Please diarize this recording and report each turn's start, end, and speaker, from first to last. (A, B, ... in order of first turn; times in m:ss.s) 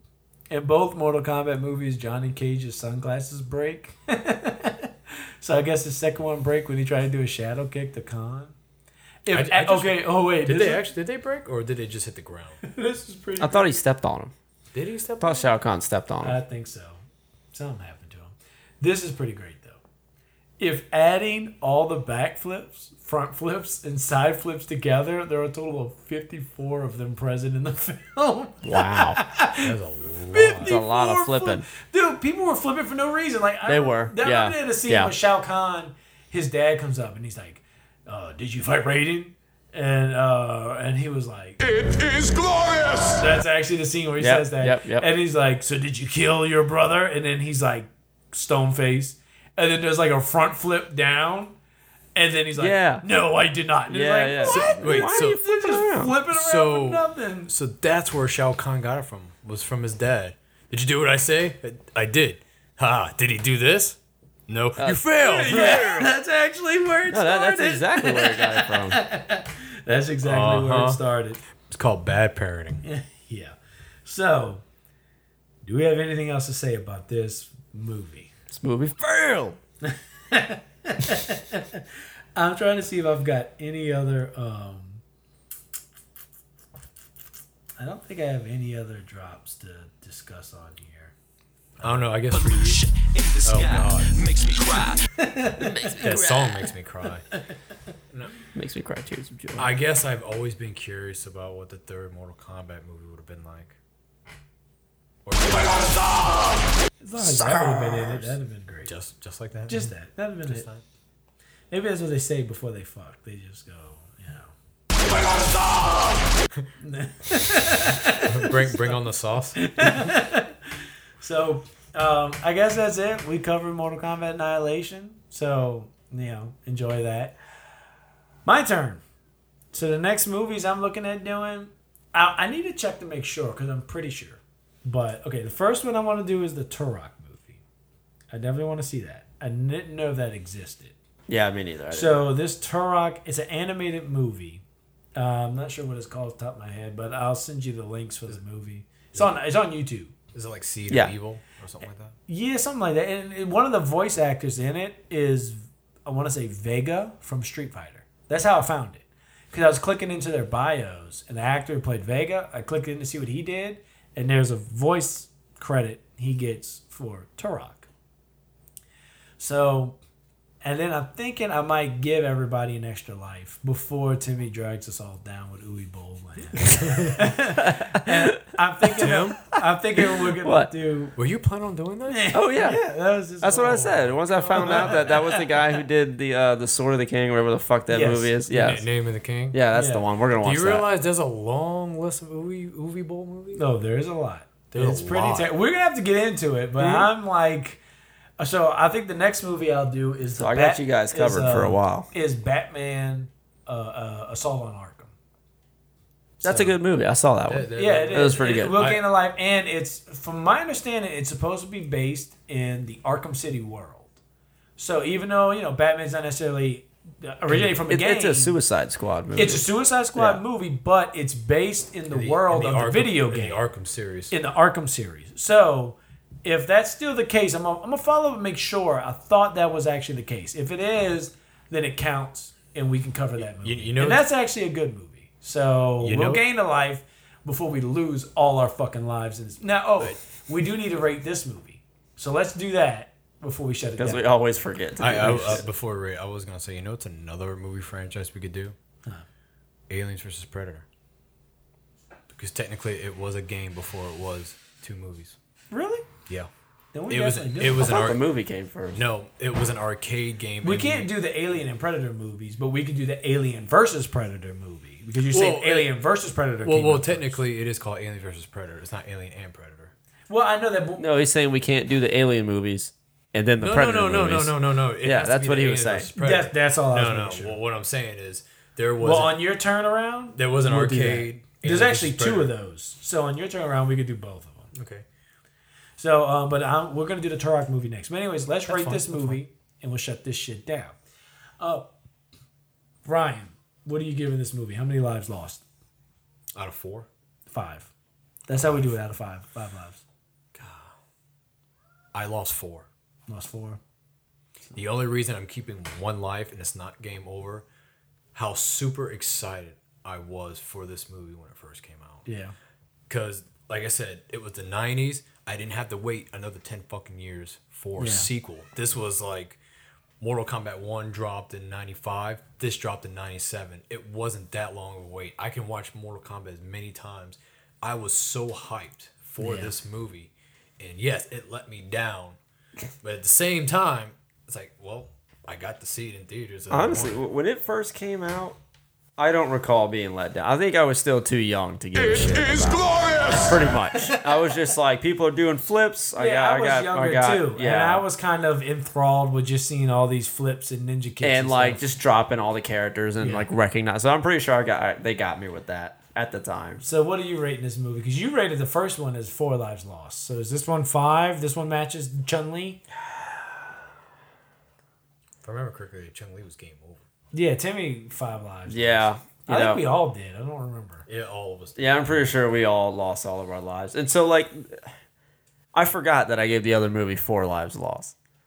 0:00.5-0:08.6 A
0:09.2-0:10.8 A
0:09.3-0:12.6 B
0:12.6-0:13.8 A
0:13.4-0:14.3 C
0:14.7-0:15.5 B
0:15.2-0:16.4 C
0:16.2-0:17.0 A
0:17.5-0:19.8 A
0:20.6-0:29.7 A
0:28.6-0:29.2 C
0:29.6-0:30.7 B
0:30.3-0:41.6 A
0:30.6-0:31.6 C
0:33.6-0:35.1 C
0:41.6-0:43.2 D
0:43.2-0:51.6 A
0:44.2-0:45.1 C
0:52.1-0:57.5 A
0:52.6-0:53.0 C
0:53.9-0:56.1 C
0:54.4-0:55.4 B
0:56.3-1:04.0 B
1:04.5-1:06.1 B
1:04.8-1:06.0 C
1:05.2-1:11.4 A
1:07.1-1:09.0 C
1:10.2-1:11.0 B
1:11.6-1:12.8 B
1:12.8-1:14.6 A
1:15.6-1:18.3 A
1:18.5-1:19.6 C
1:19.8-1:21.8 A
1:22.4-1:25.0 A
1:27.8-1:31.1 A
1:31.8-1:32.1 A
1:31.8-1:32.8 B
1:32.3-1:35.0 E
1:33.4-1:34.1 B
1:35.2-1:35.7 A
1:35.8-1:36.6 C
1:36.0-1:37.2 B
1:38.1-1:38.4 B
1:38.5-1:39.7 C
1:39.6-1:43.8 B
1:45.2-1:46.5 B
1:47.0-1:48.9 A
1:47.2-1:50.8 B
1:49.7-1:50.7 A
1:51.7-1:54.5 A
1:56.8-1:58.9 A
1:58.3-2:00.1 B
1:59.6-2:00.7 A
2:01.2-2:07.4 A
2:08.4-2:09.0 A
2:09.7-2:17.6 A
2:18.3-2:20.9 A
2:21.3-2:22.3 C
2:21.9-2:24.6 A
2:25.1-2:30.1 A
2:30.3-2:32.2 B
2:32.3-2:47.9 A
2:49.4-2:50.0 A
2:50.6-3:01.2 A
2:56.6-2:57.2 B
2:57.6-2:58.4 C
2:58.9-3:00.7 C
2:59.0-2:59.5 B
3:01.2-3:02.3 B
3:02.1-3:05.4 A
3:02.3-3:02.8 C
3:03.4-3:08.8 C
3:03.6-3:05.4 B
3:07.9-3:08.8 A
3:08.5-3:09.6 B
3:09.5-3:10.8 C
3:09.7-3:10.0 A
3:10.4-3:13.6 B
3:13.5-3:17.8 A
3:14.7-3:15.5 B
3:16.8-3:17.1 C
3:18.4-3:25.1 A
3:20.4-3:22.1 C
3:26.4-3:26.7 A
3:26.4-3:28.8 C
3:27.5-3:29.0 B
3:27.7-3:34.2 A
3:34.8-3:38.6 A
3:37.6-3:40.4 C
3:39.4-3:43.6 A
3:42.1-3:44.3 B
3:44.3-4:04.3 A
3:53.4-3:54.3 B
3:56.0-3:56.4 B
4:04.0-4:05.6 C
4:05.0-4:08.7 B
4:05.2-4:05.6 A
4:09.9-4:10.8 B
4:12.3-4:15.4 B
4:15.7-4:16.1 A
4:16.9-4:18.0 A
4:17.1-4:18.2 B
4:17.8-4:19.0 C
4:18.9-4:21.1 B
4:20.6-4:27.4 A
4:25.3-4:25.9 B
4:26.6-4:29.9 B
4:30.3-4:31.0 A
4:31.0-4:36.1 C
4:33.6-4:39.4 B
4:36.1-4:37.6 A
4:39.0-4:44.7 A
4:40.3-4:42.5 B
4:44.7-4:45.0 B
4:46.0-4:51.0 A
4:48.6-4:49.4 B
4:51.6-4:51.9 A
4:53.0-4:55.6 A
4:56.5-4:57.1 B
4:57.5-4:57.9 A
4:58.5-5:00.0 A
5:00.6-5:00.9 B
5:02.1-5:02.9 B
5:03.3-5:03.8 A
5:04.7-5:07.6 B
5:08.3-5:12.3 B
5:12.2-5:12.5 A
5:13.1-5:19.6 B
5:18.0-5:18.3 A
5:20.2-5:32.4 B
5:29.4-5:29.7 A
5:33.0-5:37.2 B
5:36.7-5:38.6 C
5:39.2-5:48.0 C
5:41.9-5:44.2 D
5:46.2-5:51.9 A
5:51.2-5:56.8 C
5:53.2-5:53.5 A
5:56.8-6:02.8 A
6:05.4-6:07.0 B
6:07.3-6:11.0 A
6:08.7-6:09.8 C
6:11.1-6:12.3 B
6:11.8-6:14.9 C
6:15.7-6:18.1 C